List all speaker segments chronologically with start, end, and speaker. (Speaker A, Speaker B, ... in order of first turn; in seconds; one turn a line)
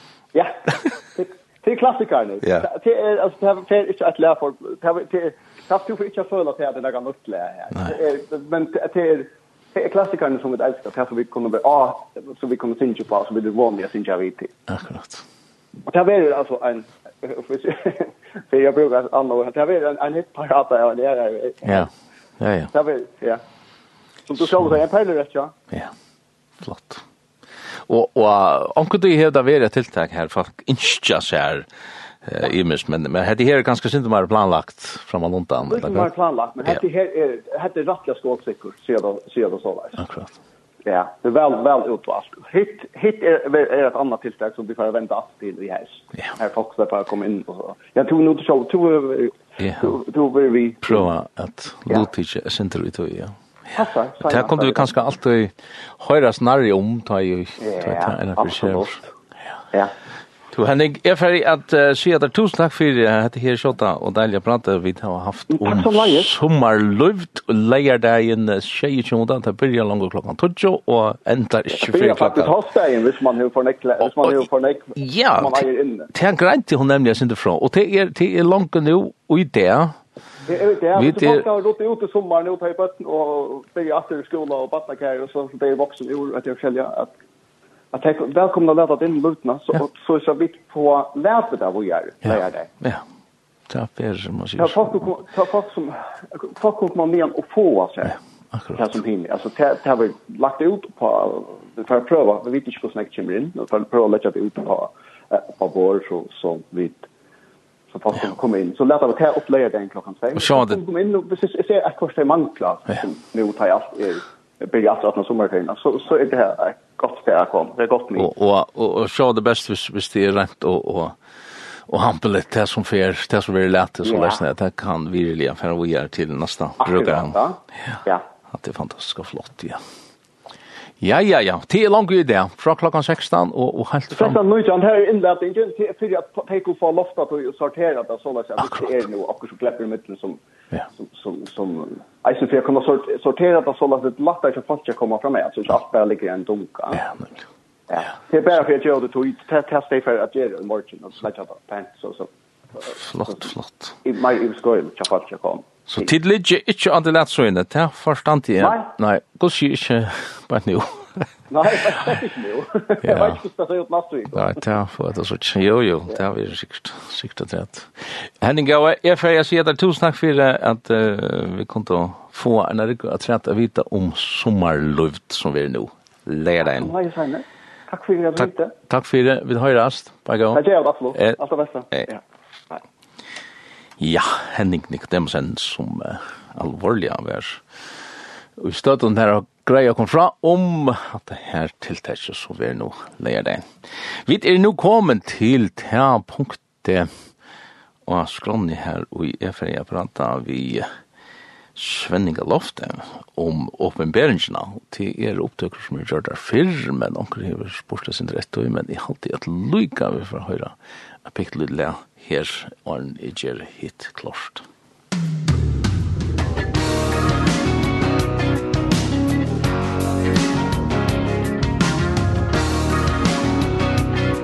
Speaker A: 0.3-14.5
Speaker B: 14.7-15.2
Speaker A: 15.8-21.9
Speaker B: 21.6-22.7
Speaker A: 22.7-23.4
Speaker A: 24.3-25.5
Speaker B: 26.6-27.0
Speaker B: 27.9-31.6
Speaker B: 32.2-36.1
Speaker A: 35.7-40.0
Speaker B: 40.0-40.3
Speaker A: 40.8-51.1
Speaker B: 49.6-49.9
Speaker B: 50.8-53.4
Speaker A: 53.7-54.9
Speaker B: 54.2-59.0
Speaker A: 57.6-59.0
Speaker B: 60.5-72.5
Speaker A: 65.5-66.3
Speaker A: 71.7-76.1
Speaker B: 75.0-80.0
Speaker A: 80.4-87.1
Speaker B: 80.9-81.4
Speaker A: 87.9-92.7
Speaker B: 93.7-95.0
Speaker A: 94.6-98.2
Speaker A: 98.7-107.1
Speaker A: 107.9-118.3
Speaker B: 110.4-110.8
Speaker B: 118.2-121.2
Speaker B: 121.9-127.4
Speaker A: 124.0-124.4
Speaker A: 126.8-128.2
Speaker B: 128.5-129.8
Speaker B: 131.0-134.4
Speaker A: 134.1-140.4
Speaker A: 140.9-147.1
Speaker A: 147.9-153.4
Speaker B: 153.0-153.9
Speaker A: 154.0-156.1
Speaker B: 155.9-161.3
Speaker A: 158.6-158.8
Speaker A: 161.5-164.6
Speaker B: 163.1-163.3
Speaker B: 164.3-176.9
Speaker A: 176.6-178.7
Speaker B: 178.4-181.4
Speaker A: 180.5-182.8
Speaker B: 184.0-187.6
Speaker B: 188.6-197.1
Speaker B: 198.1-200.9
Speaker B: 201.7-214.7